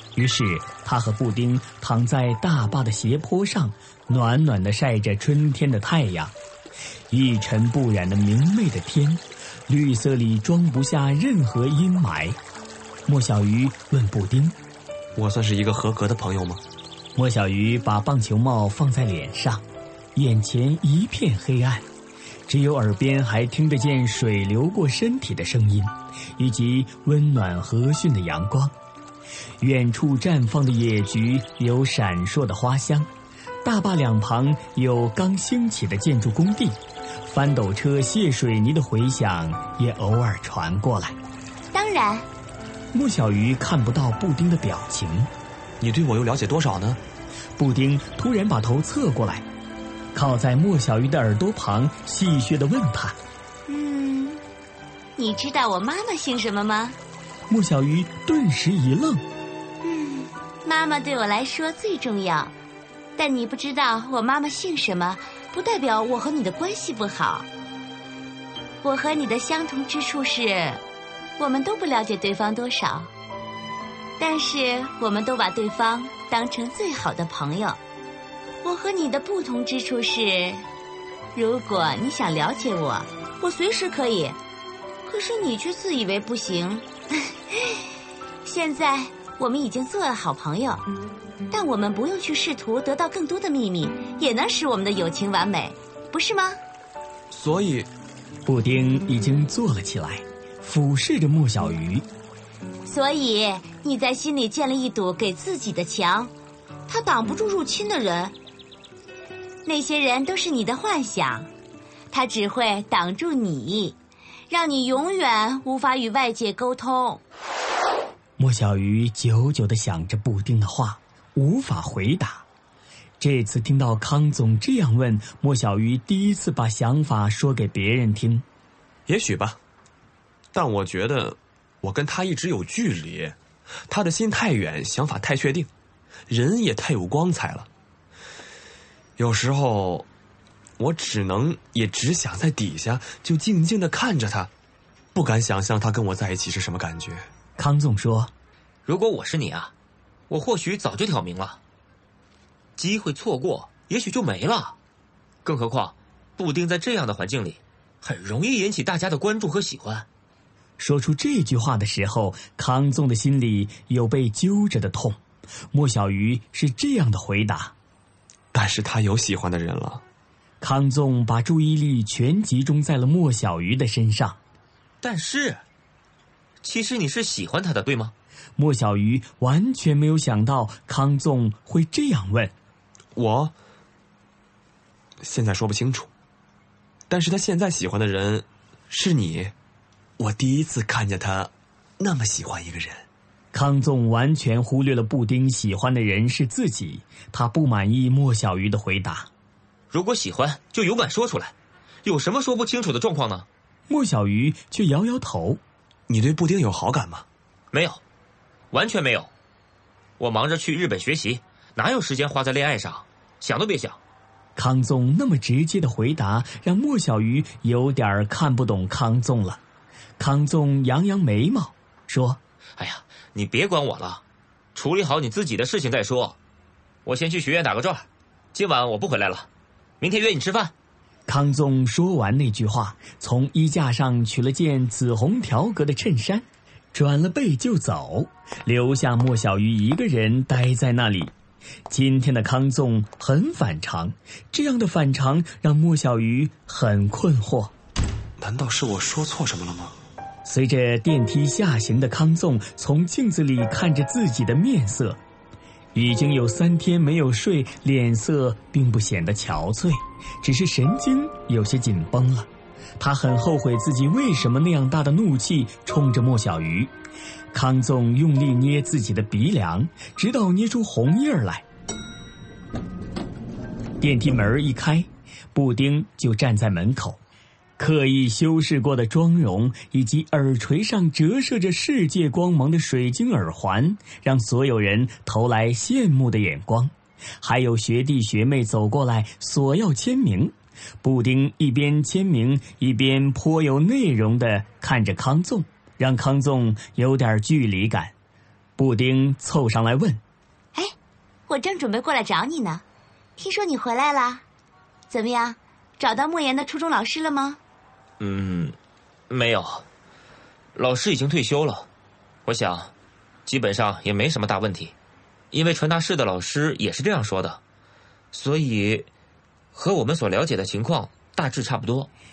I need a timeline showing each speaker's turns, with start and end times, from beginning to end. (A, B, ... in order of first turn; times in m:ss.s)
0:00.1-0:06.3 A
0:07.1-0:12.4 A
0:13.0-0:14.6 A
0:15.2-0:16.6 B
0:17.2-0:19.6 A
0:20.1-0:21.8 A
0:22.5-0:28.7 A
0:29.6-0:33.1 A
0:33.6-0:41.2 A
0:41.7-0:42.3 C
0:42.9-0:45.3 A
0:45.8-0:47.0 B
0:47.6-0:49.4 A
0:50.1-0:53.2 A
0:53.7-0:54.4 C
0:55.2-0:57.0 C
0:57.5-0:59.2 A
0:59.8-1:02.5 C
1:03.2-1:07.4 C
1:08.8-1:10.8 C
1:11.4-1:13.1 C
1:14.2-1:17.8 C
1:18.6-1:20.6 C
1:21.3-1:24.4 C
1:25.0-1:27.8 C
1:28.4-1:30.8 C
1:31.5-1:36.6 C
1:37.3-1:37.9 B
1:38.4-1:42.0 A
1:42.8-1:46.3 C
1:46.9-1:48.3 C
1:49.6-1:51.5 C
1:52.1-1:54.0 C
1:54.5-1:57.2 C
1:58.4-2:02.4 A
2:03.2-2:08.4 A
2:09.1-2:09.6 B
2:10.5-2:13.4 B
2:13.9-2:15.7 B
2:16.3-2:17.7 B
2:19.2-2:20.0 B
2:20.8-2:24.5 B
2:25.1-2:27.3 B
2:27.6-2:28.3 A
2:28.8-2:29.7 D
2:30.3-2:31.6 D
2:32.8-2:34.7 D
2:35.4-2:40.0 D
2:40.8-2:45.2 A
2:45.7-2:47.7 A
2:48.5-2:50.0 B
2:50.6-2:54.4 A
2:55.0-2:55.6 D
2:56.6-2:58.1 D
2:58.6-3:02.5 A
3:03.1-3:03.5 B
3:05.2-3:06.1 B
3:07.1-3:09.5 B
3:10.2-3:13.0 B
3:13.5-3:19.3 A
3:19.9-3:21.5 D
3:22.0-3:23.5 D
3:23.9-3:25.6 A
3:26.1-3:27.2 B
3:27.7-3:28.0 D
3:28.7-3:29.3 D
3:30.2-3:34.0 D
3:34.6-3:39.6 A
3:40.2-3:42.4 A
3:42.8-3:44.2 D
3:44.7-3:46.4 D
3:47.0-3:49.5 D
3:50.0-3:50.7 D
3:51.3-4:01.3 A
4:01.9-4:07.7 A
4:08.4-4:09.9 B
4:10.4-4:15.2 A
4:15.9-4:26.9 A
4:27.5-4:31.6 A
4:34.0-4:37.2 A
4:37.8-4:58.1 A
4:58.8-5:00.2 A
5:01.5-5:02.8 C
5:03.4-5:04.4 C
5:05.1-5:07.6 C
5:08.2-5:08.7 D
5:09.3-5:09.8 D
5:10.7-5:11.9 D
5:12.4-5:12.9 D
5:13.4-5:14.9 D
5:15.5-5:17.6 D
5:18.3-5:19.1 D
5:19.7-5:22.1 D